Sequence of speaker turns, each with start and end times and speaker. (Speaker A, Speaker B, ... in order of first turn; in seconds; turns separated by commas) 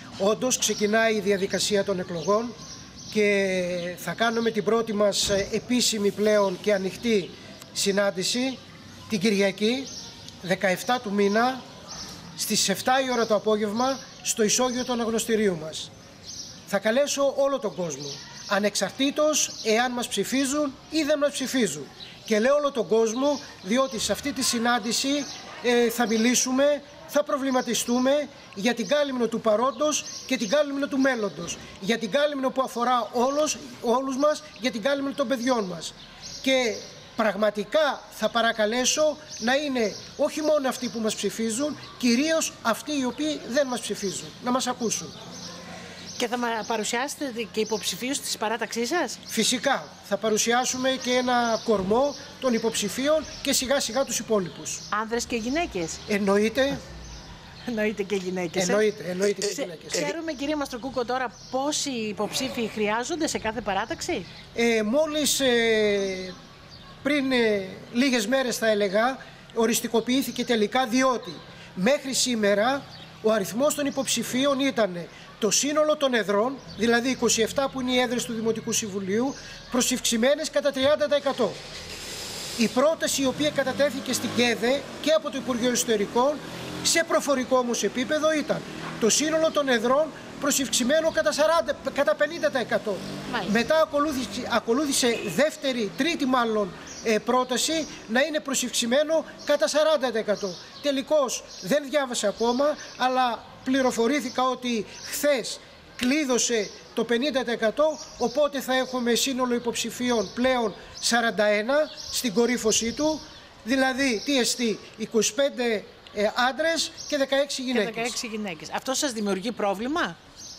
Speaker A: 0.2-2.6, Speaker A: 3.1-9.9, Speaker A: 10.4-11.6, Speaker A: 12.4-15.9, Speaker A: 16.7-45.1, Speaker B: 46.2-49.2, Speaker A: 49.3-54.8, Speaker B: 54.9-56.0, Speaker A: 56.1-56.8, Speaker B: 57.7-58.9, Speaker A: 58.6-60.1, Speaker B: 59.4-64.3, Speaker A: 64.5-66.4, Speaker A: 67.0-81.6, Speaker A: 82.6-118.2, Speaker B: 93.3-93.5, Speaker B: 117.7-120.2